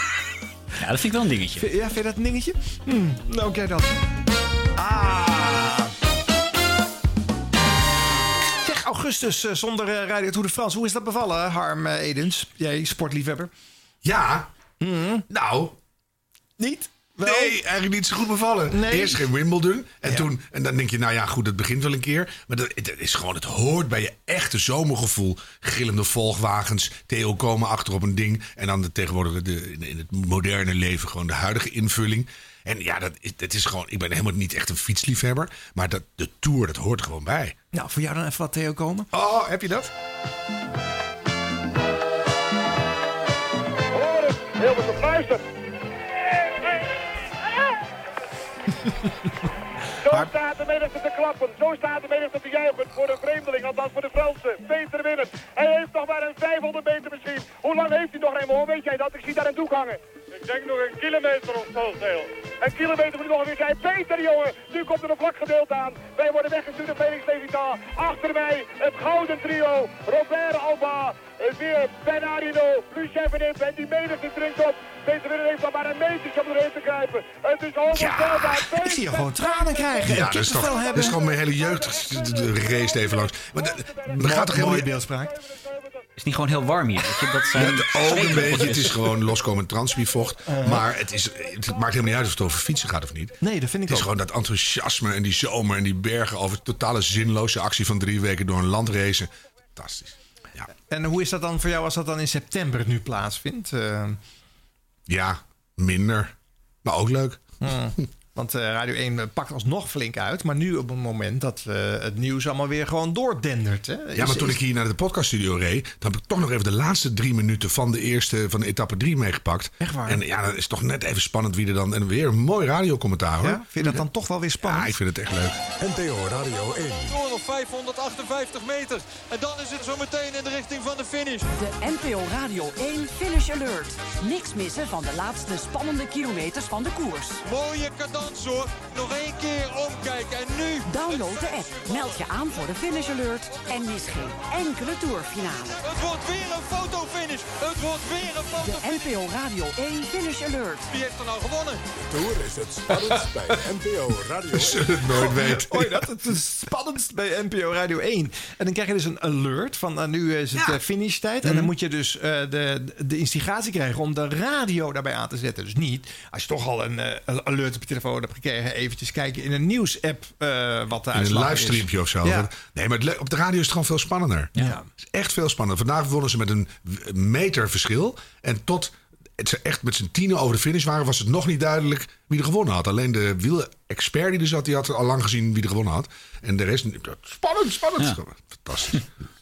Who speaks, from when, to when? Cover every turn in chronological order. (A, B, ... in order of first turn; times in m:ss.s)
0:00.8-0:01.7 A
0:01.6-0:04.0 B
0:04.8-0:05.9 B
0:08.6-0:13.5 B
0:14.0-0:14.5 C
0:14.8-0:15.3 B
0:15.3-0:15.8 C
0:16.6-0:17.6 B
0:17.2-0:37.6 C
0:18.7-0:19.3 B
0:37.7-0:39.1 B
0:39.1-0:39.9 C
0:43.9-0:45.4 D
0:50.0-1:20.0 D
1:17.9-1:18.7 C
1:18.7-1:21.2 B
1:20.0-1:24.9 C
1:20.7-1:21.1 D
1:22.7-1:23.0 D
1:23.7-1:24.0 D
1:24.2-1:25.3 B
1:25.4-1:26.0 D
1:26.2-1:29.0 A
1:27.5-1:33.4 C
1:30.5-1:30.8 B
1:33.4-1:34.1 B
1:33.9-1:40.7 C
1:40.9-1:44.2 B
1:45.1-1:46.3 C
1:46.8-1:47.4 C
1:47.6-1:54.6 B
1:54.2-2:04.0 C
1:59.8-2:00.2 B
2:03.4-2:05.0 B
2:04.6-2:05.6 C
2:05.8-2:07.2 E
2:07.1-2:11.5 F
2:11.5-2:17.4 G
2:17.4-2:22.4 F
2:20.9-2:25.8 G
2:25.8-2:29.1 F
2:28.6-2:30.9 G
2:30.9-2:31.8 F
2:32.0-2:34.9 E
2:34.5-2:36.0 C
2:35.2-2:52.5 B
2:51.1-3:09.0 C
2:54.6-2:54.9 B